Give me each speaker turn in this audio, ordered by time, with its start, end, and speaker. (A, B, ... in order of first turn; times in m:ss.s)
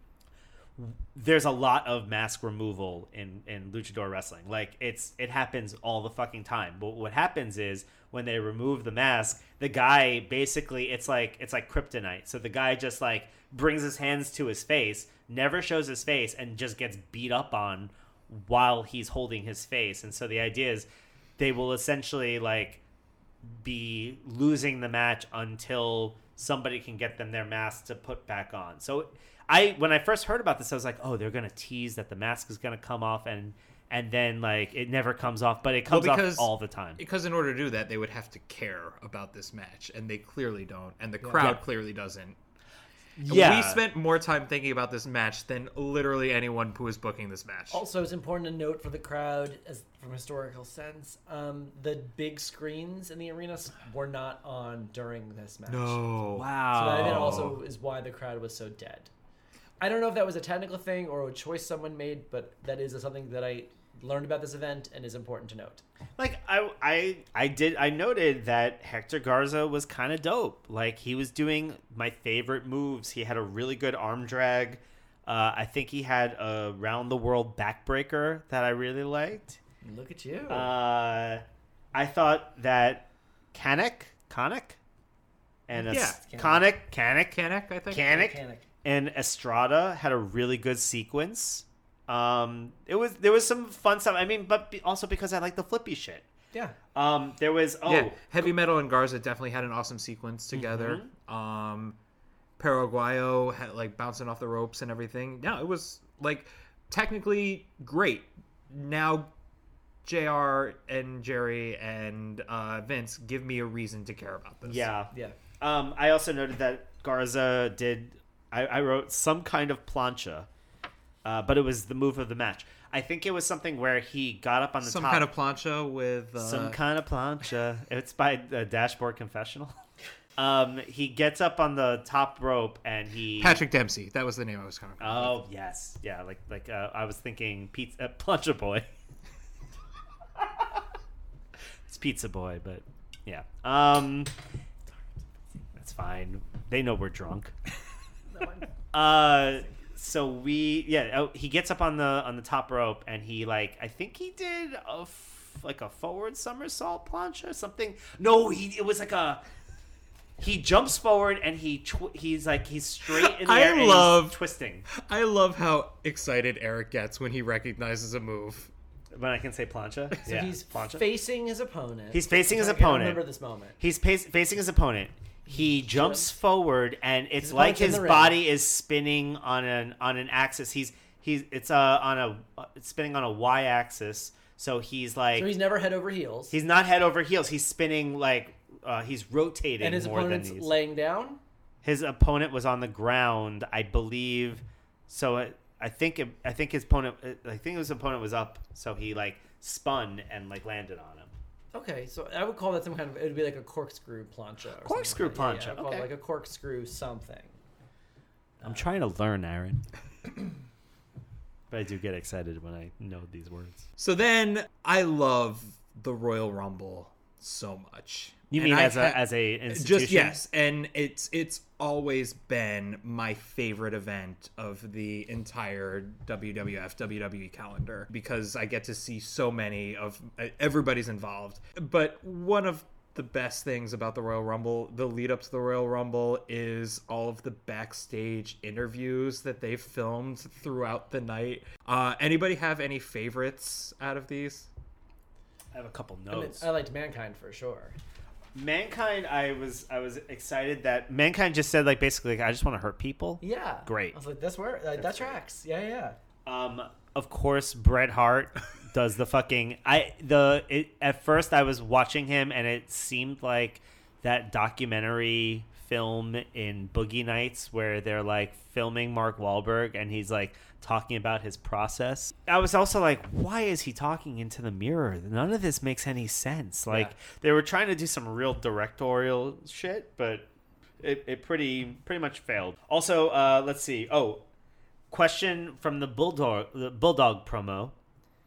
0:00.8-0:20.8 A
0:21.4-0:22.8 A
0:23.5-0:37.0 A
0:35.9-0:42.4 B
0:41.2-0:41.6 C
0:43.2-0:43.8 A
0:43.3-0:47.8 B
0:47.7-0:56.0 C
0:55.7-0:57.6 B
0:56.4-0:57.6 A
0:56.7-0:59.1 C
0:59.8-1:05.8 C
1:06.2-1:19.6 A
1:19.8-1:20.7 C
1:20.5-1:21.4 A
1:21.9-1:24.8 A
1:25.7-1:27.4 A
1:25.8-1:26.6 C
1:25.9-1:26.2 B
1:27.3-1:28.2 B
1:27.9-1:36.3 A
1:27.9-1:28.7 C
1:36.9-1:38.5 A
1:37.8-1:42.0 B
1:40.5-1:41.1 A
1:42.6-1:49.3 B
1:50.0-1:54.9 B
1:54.6-2:00.5 A
2:01.2-2:05.3 A
2:04.8-2:06.8 B
2:06.4-2:09.7 A
2:10.4-2:13.6 A
2:13.4-2:15.4 B
2:15.0-2:18.8 A
2:21.9-2:24.3 A
2:25.8-2:27.5 A
2:28.3-2:28.7 C
2:28.9-2:39.4 A
2:40.4-2:44.8 A
2:43.0-2:44.4 B
2:44.9-2:48.7 B
2:49.1-2:51.0 A
2:50.2-2:53.8 C
2:52.1-2:53.2 A
2:53.8-3:05.5 A
2:55.4-2:56.3 C
2:57.4-2:58.4 C
3:05.4-3:06.5 C
3:06.5-3:10.7 A
3:09.8-3:11.4 C
3:11.8-3:21.3 A
3:21.7-3:27.5 C
3:24.8-3:26.1 A
3:28.6-3:28.9 C
3:28.6-3:29.8 A
3:31.7-3:33.8 A
3:34.0-4:04.7 B
3:38.5-3:40.4 A
4:05.7-4:06.6 A
4:06.3-4:08.0 C
4:08.5-4:14.2 A
4:13.4-4:16.2 C
4:15.0-4:15.4 A
4:16.4-4:40.5 A
4:36.9-4:37.1 C
4:41.0-4:44.4 A
4:45.1-4:47.9 A